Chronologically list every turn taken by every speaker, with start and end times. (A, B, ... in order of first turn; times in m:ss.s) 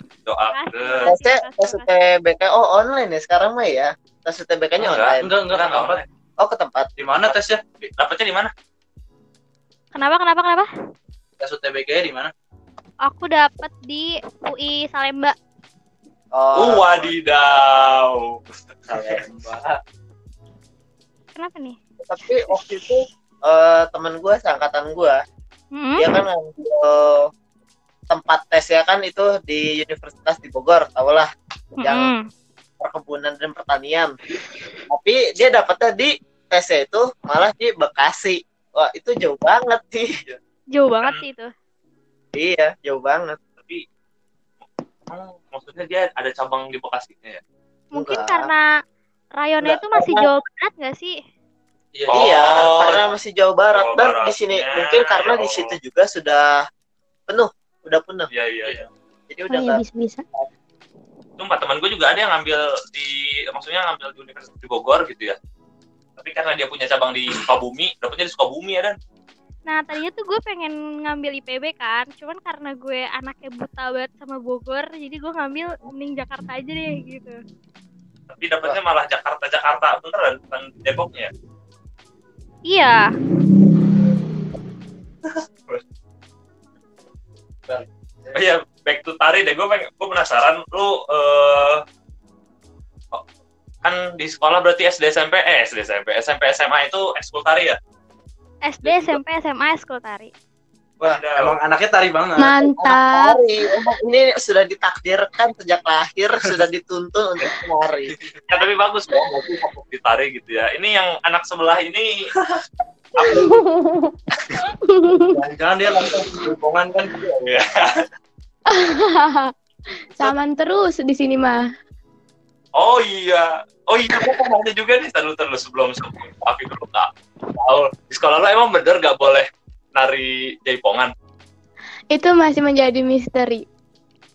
0:00.3-0:01.2 A
0:00.5-0:01.9 B
0:01.1-0:05.4 C
0:04.8-0:06.1 A
0:05.2-0:06.0 D
0:06.4-0:06.9 C
0:07.0-0:07.9 D
0:08.0-0:08.5 A
0:09.9-0:10.7 B
0:11.4-0:12.3 D
0:13.0-0:15.4 B
0:16.3-0:17.2 C
0:16.5-0:19.2 A
0:18.9-0:19.8 D
0:21.4-0:21.8 B
0:22.0-0:25.2 C
0:25.7-0:26.1 B
0:26.0-0:27.3 C
0:28.1-0:31.3 C
0:31.8-0:32.2 B
0:31.8-0:32.1 C
0:32.8-0:34.2 C
0:34.9-0:40.1 C
0:40.7-0:41.5 B
0:42.4-0:43.4 C
0:43.6-0:43.8 A
0:45.1-0:47.4 A
0:47.9-0:48.5 C
0:47.9-0:48.7 B
0:49.4-0:51.2 B
0:49.6-0:50.3 C
0:52.0-0:52.7 D
0:52.1-0:53.1 A
0:52.1-0:56.6 C
0:53.7-0:55.8 A
0:57.3-0:58.3 C
0:58.3-0:58.8 A
0:59.3-0:59.8 C
0:59.5-1:00.2 E
1:01.4-1:05.4 A
1:06.2-1:09.0 A
1:09.7-1:17.4 B
1:18.3-1:21.3 A
1:22.7-1:23.1 B
1:27.7-1:28.4 D
1:28.3-1:31.8 A
1:33.8-1:37.8 A
1:38.6-1:40.3 B
1:38.8-1:39.2 D
1:41.0-1:41.6 A
1:41.0-1:42.6 D
1:42.4-1:43.4 E
1:42.6-1:48.2 C
1:48.1-1:48.4 D
1:48.5-1:52.2 A
1:53.2-1:53.6 A
1:53.2-1:55.4 E
1:55.2-1:57.1 D
1:57.2-1:58.0 A
1:58.7-1:59.5 E
2:00.2-2:01.6 E
2:02.8-2:11.1 A
2:12.1-2:13.6 E